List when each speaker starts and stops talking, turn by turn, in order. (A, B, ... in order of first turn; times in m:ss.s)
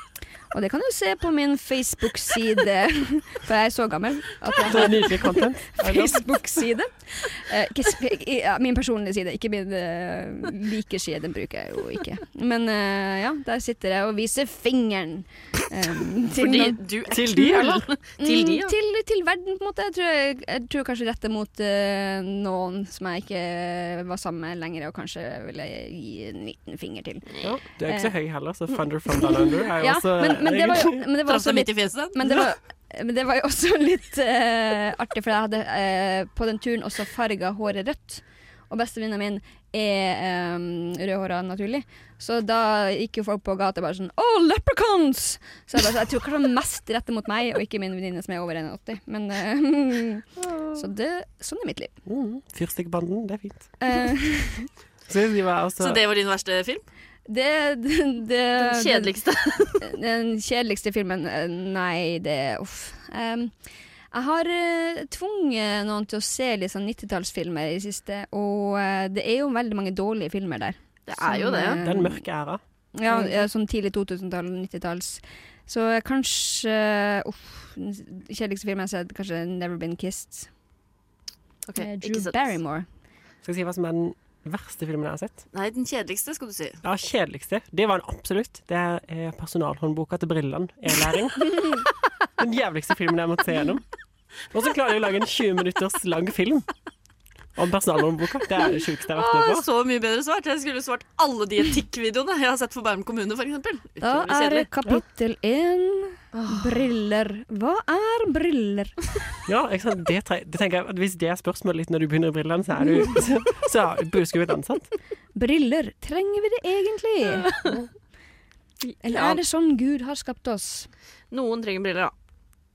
0:00.5-0:27.4 A
0:04.6-0:06.2 B
0:16.4-0:18.7 C
0:17.1-0:17.9 B
0:27.4-0:31.0 B
0:27.9-0:28.1 A
0:29.2-0:51.9 A
0:31.3-0:32.2 C
0:50.4-0:50.8 C
0:52.1-0:53.7 B
0:53.8-0:54.7 A
0:55.1-0:56.0 B
0:55.8-0:56.9 C
0:57.3-0:59.2 A
0:58.6-0:59.9 C
0:59.8-1:03.5 A
1:04.1-1:12.2 A
1:11.1-1:11.8 C
1:11.8-1:12.6 B
1:13.0-1:20.5 A
1:21.7-1:22.4 C
1:21.8-1:22.9 A
1:23.4-1:25.4 B
1:25.5-1:26.8 C
1:26.8-1:31.8 B
1:32.4-1:33.8 B
1:34.5-1:36.7 B
1:37.6-1:39.7 B
1:39.1-1:44.7 C
1:44.0-1:49.0 A
1:46.3-1:46.8 C
1:49.5-1:54.9 B
1:55.4-1:57.5 A
1:57.4-1:57.8 C
1:58.8-1:59.4 C
1:59.0-2:00.9 A
2:01.3-2:02.1 C